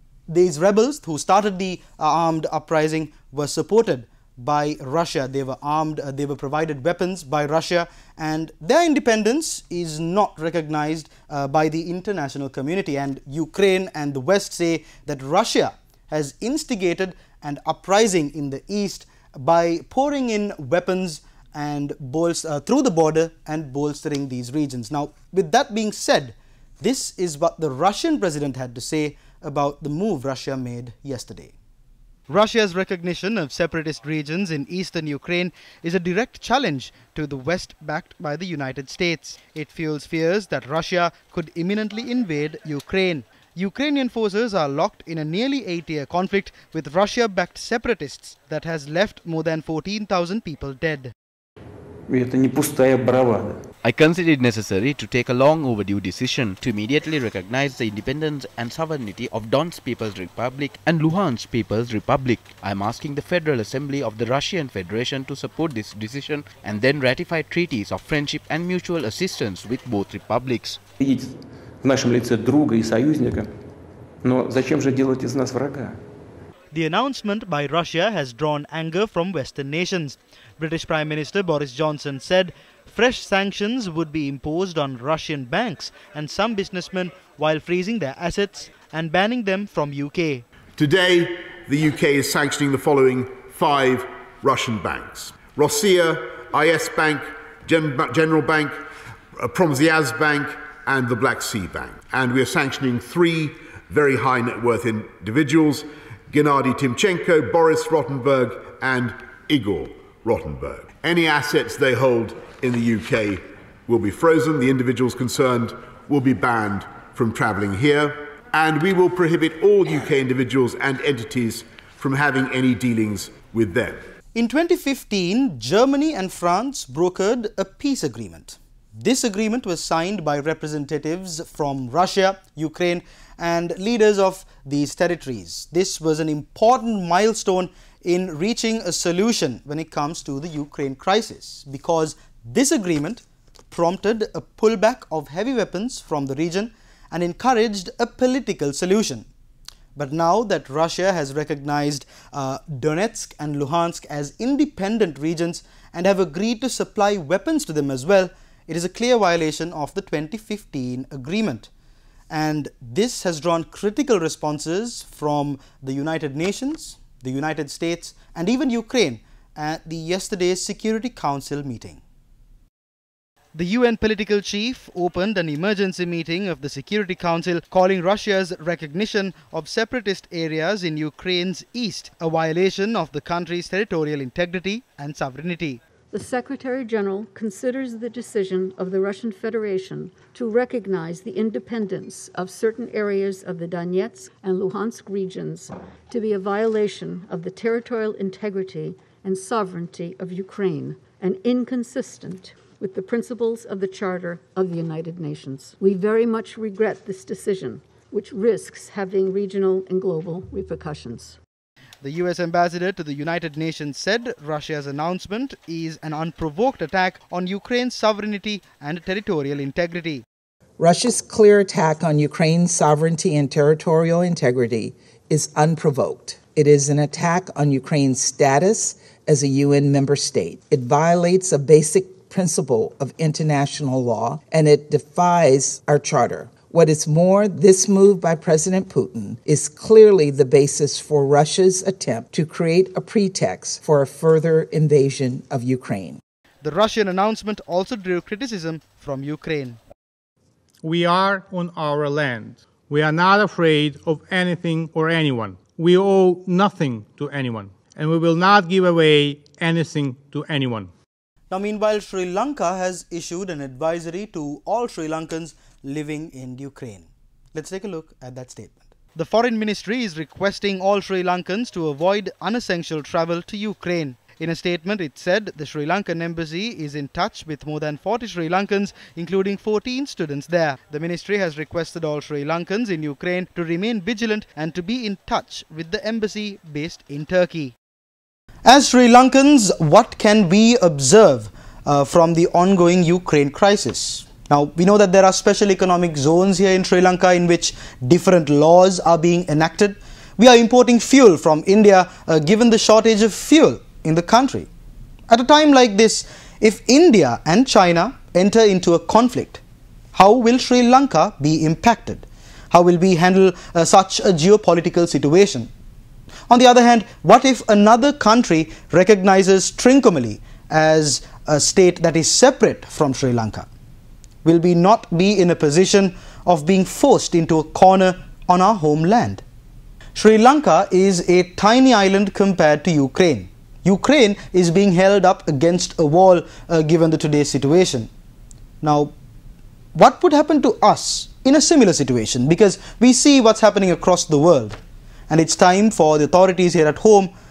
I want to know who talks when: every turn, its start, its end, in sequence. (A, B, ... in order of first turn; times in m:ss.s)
0:00.3-0:31.6 A
0:32.3-0:51.1 A
0:52.1-0:53.6 B
0:53.8-1:10.8 C
1:11.0-1:11.3 B
1:11.8-1:13.5 B
1:14.2-1:16.0 B
1:16.7-1:30.4 A
1:30.8-1:38.8 D
1:39.4-2:04.0 D
2:04.3-2:29.3 A
2:30.0-2:41.7 A
2:42.3-2:52.0 A
2:53.5-3:05.8 A
3:06.1-3:31.4 E
3:32.0-3:40.2 A
3:40.8-4:06.2 F
4:06.6-4:09.8 A
4:10.8-4:20.9 G
4:21.5-4:47.8 A
4:48.6-5:04.7 A
5:05.3-5:09.6 A
5:10.1-5:15.7 A
5:16.5-5:23.7 A
5:24.4-5:29.4 A
5:30.2-5:38.1 A
5:38.8-5:39.1 A
5:40.0-5:44.8 A
5:45.3-5:47.3 A